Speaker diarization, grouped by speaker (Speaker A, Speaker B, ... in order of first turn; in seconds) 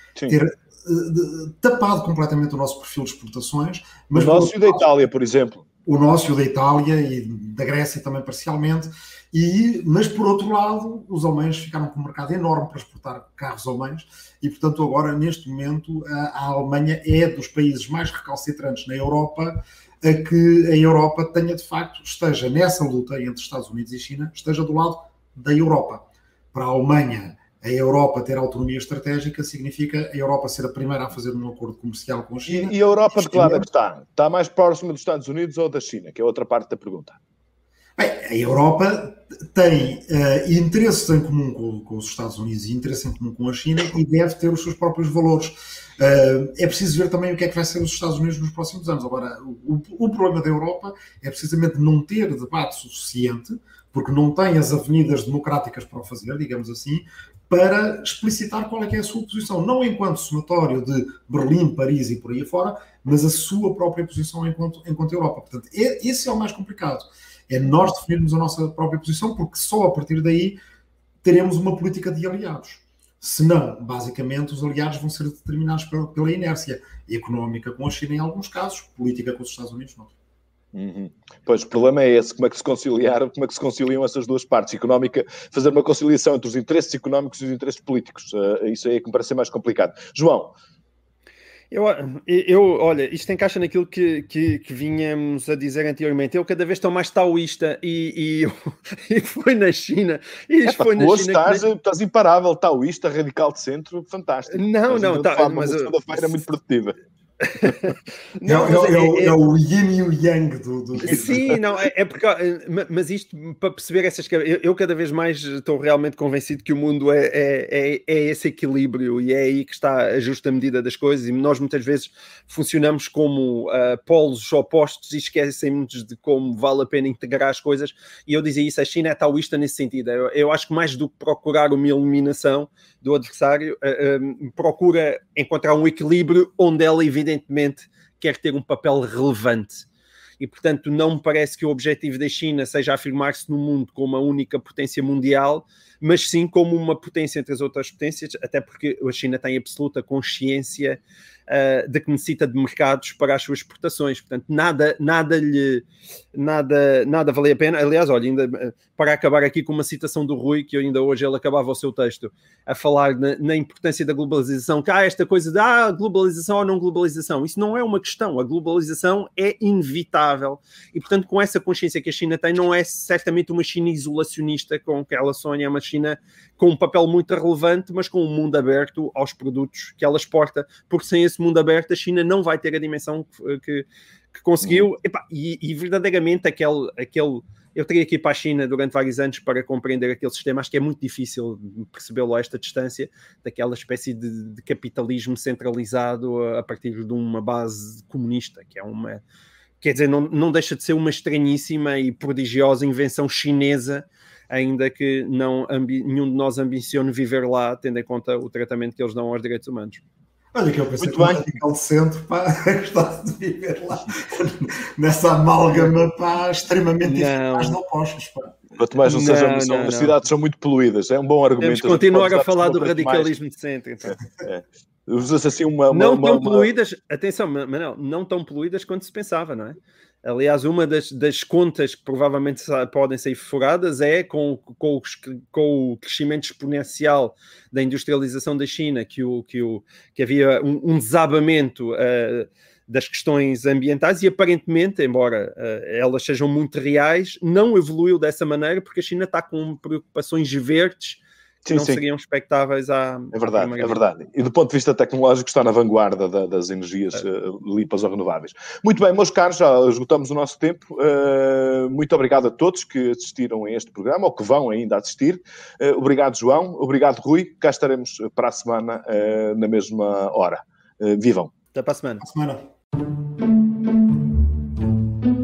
Speaker A: 0.3-4.8, 5.8-33.7, 38.0-70.6, 71.2-80.1, 108.4-111.4, 210.5-218.5, 272.2-272.6
Speaker B: 4.1-5.6, 32.5-37.2, 80.7-90.5, 100.6-107.0, 111.1-111.5, 184.6-184.9, 211.0-211.5, 218.8-223.3, 224.4-226.7, 251.6-252.0, 253.3-271.5
Speaker C: 91.7-101.6, 104.5-106.4, 107.4-109.3, 111.0-139.8, 140.4-199.2, 199.8-210.0, 217.0-217.8, 219.0-220.1, 221.6-224.2, 225.9-254.0, 271.7-272.2